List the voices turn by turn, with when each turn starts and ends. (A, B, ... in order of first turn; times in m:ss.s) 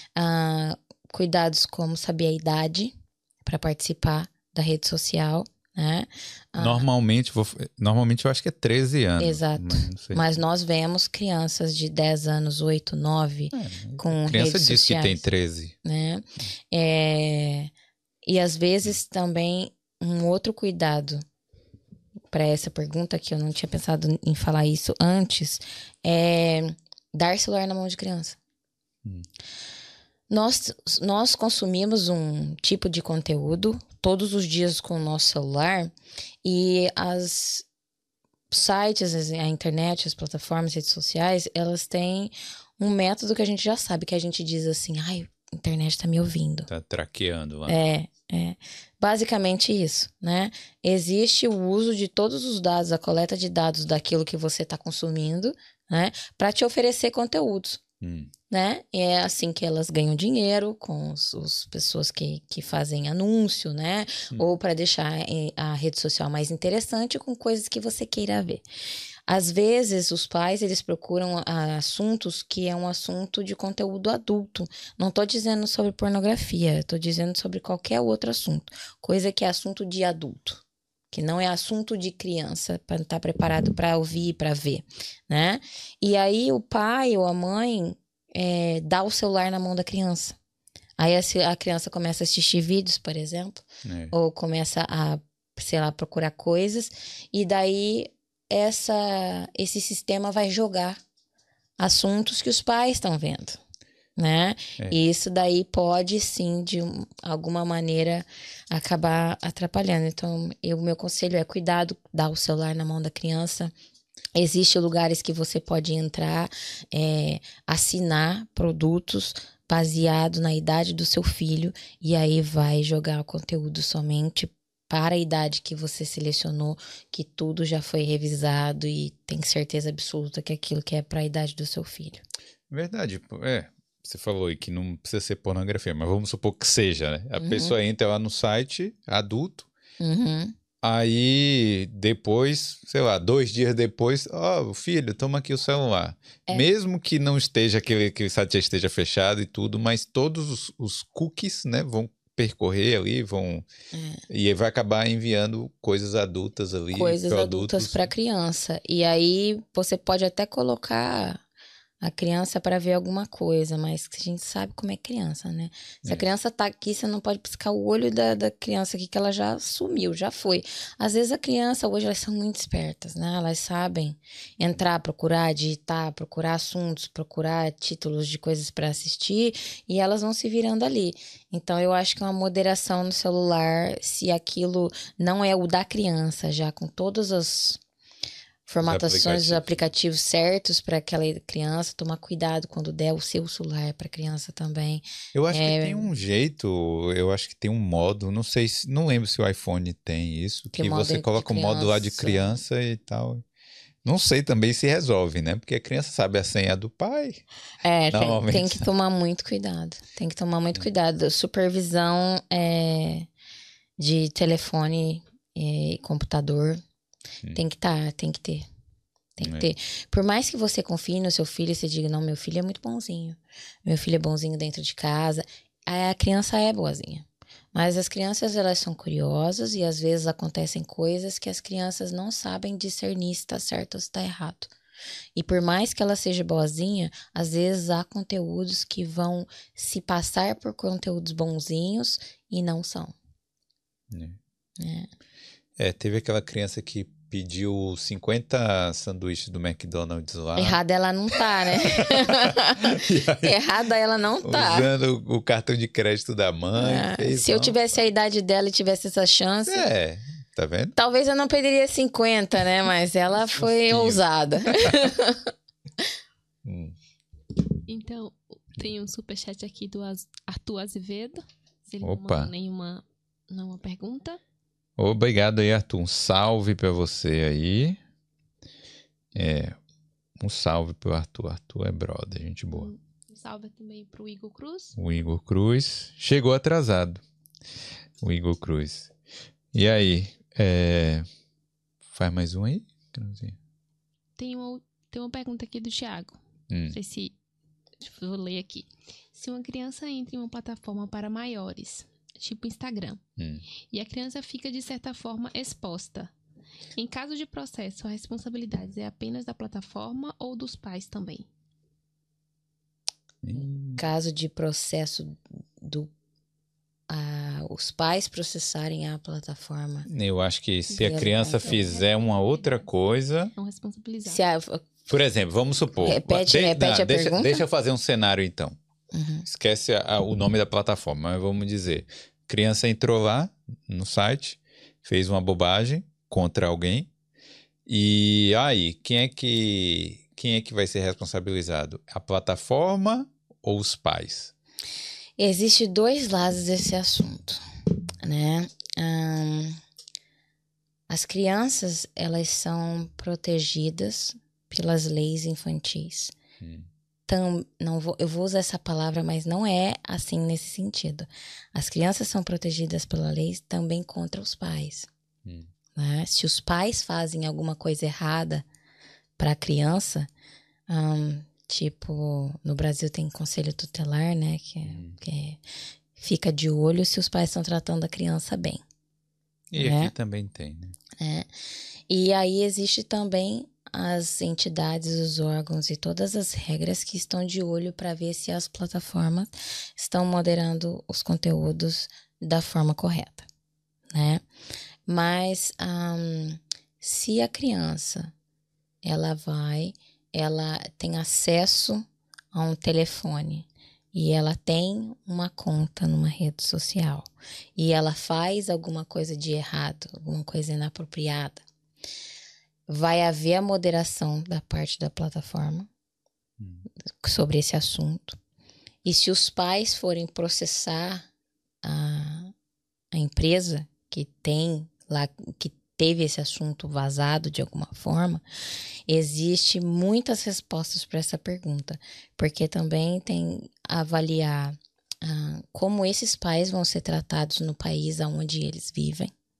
0:00.2-0:06.8 A
0:06.6-0:10.3 B
0:09.2-0:15.2 A
0:13.5-0:15.8 B
0:15.8-0:17.7 A
0:18.2-0:21.2 A
0:22.3-0:28.4 A
0:30.3-0:37.6 A
0:38.5-0:46.7 A
0:46.7-0:47.8 B
0:47.7-0:57.8 A
0:58.0-0:58.3 B
0:58.5-1:08.6 A
1:09.3-1:30.4 A
1:31.0-1:41.0 A
1:33.8-1:34.1 B
1:41.8-1:43.6 A
1:44.2-1:53.7 A
1:54.3-2:12.2 A
2:12.7-2:19.7 B
2:17.4-2:17.7 A
2:20.0-2:20.5 A
2:20.8-2:33.7 B
2:33.9-2:34.2 A
2:34.3-2:38.1 B
2:36.9-2:41.4 A
2:42.0-3:07.8 A
3:08.7-3:16.0 A
3:08.8-3:09.8 B
3:15.3-3:23.4 B
3:20.7-3:22.6 A
3:24.0-3:27.4 B
3:27.8-3:33.3 A
3:28.1-3:28.9 B
3:34.0-3:36.8 A
3:37.5-3:38.7 A
3:39.4-3:54.7 A
3:39.4-3:39.7 B
3:55.3-4:03.1 A
4:04.1-4:04.4 B
4:04.8-4:05.1 A
4:05.8-4:10.8 B
4:10.6-4:14.9 A
4:11.7-4:13.6 B
4:14.4-4:17.8 B
4:16.8-4:19.9 A
4:19.6-4:20.9 B
4:21.0-4:25.5 A
4:23.3-4:25.0 B
4:26.6-4:26.9 B
4:27.9-4:34.4 C
4:32.0-4:32.5 B
4:35.0-4:38.0 B
4:39.3-4:39.8 B
4:40.4-4:42.9 B
4:42.7-4:45.0 C
4:45.0-4:47.2 B
4:48.2-4:49.1 B
4:49.7-4:51.2 B
4:52.1-4:53.6 B
4:54.4-4:56.4 C
4:56.7-4:57.0 B
4:56.9-4:57.3 C
4:58.0-5:03.2 C
5:03.4-5:03.6 B
5:03.9-5:06.3 C
5:06.9-5:11.4 C
5:13.4-5:14.0 B
5:13.6-5:16.1 A
5:17.1-5:20.1 A
5:20.1-5:23.5 B
5:21.0-5:22.9 C
5:21.0-5:21.8 A
5:23.6-5:24.4 C
5:24.2-5:24.9 A
5:25.1-5:28.8 B
5:26.0-5:27.6 A
5:29.1-5:29.4 A
5:29.4-5:37.1 B
5:37.8-5:44.5 B
5:45.4-5:47.6 A
5:48.2-5:49.8 A
5:51.1-5:56.3 A
5:56.6-5:56.9 B
5:57.3-6:05.1 A
6:05.4-6:05.7 B
6:06.0-6:08.6 A
6:09.4-6:10.3 A
6:10.9-6:15.6 A
6:14.8-6:15.2 B
6:16.2-6:18.8 A
6:19.7-6:21.0 B
6:19.8-6:20.1 A
6:21.2-6:21.5 A
6:22.1-6:33.5 A
6:34.1-6:34.4 A
6:35.0-6:38.3 A
6:39.0-6:51.6 A
6:52.9-6:55.9 A
6:56.6-6:56.8 B
6:57.2-6:58.4 A
6:59.0-7:01.3 A
7:01.8-7:02.5 A
7:03.1-7:08.4 A
7:09.1-7:19.3 A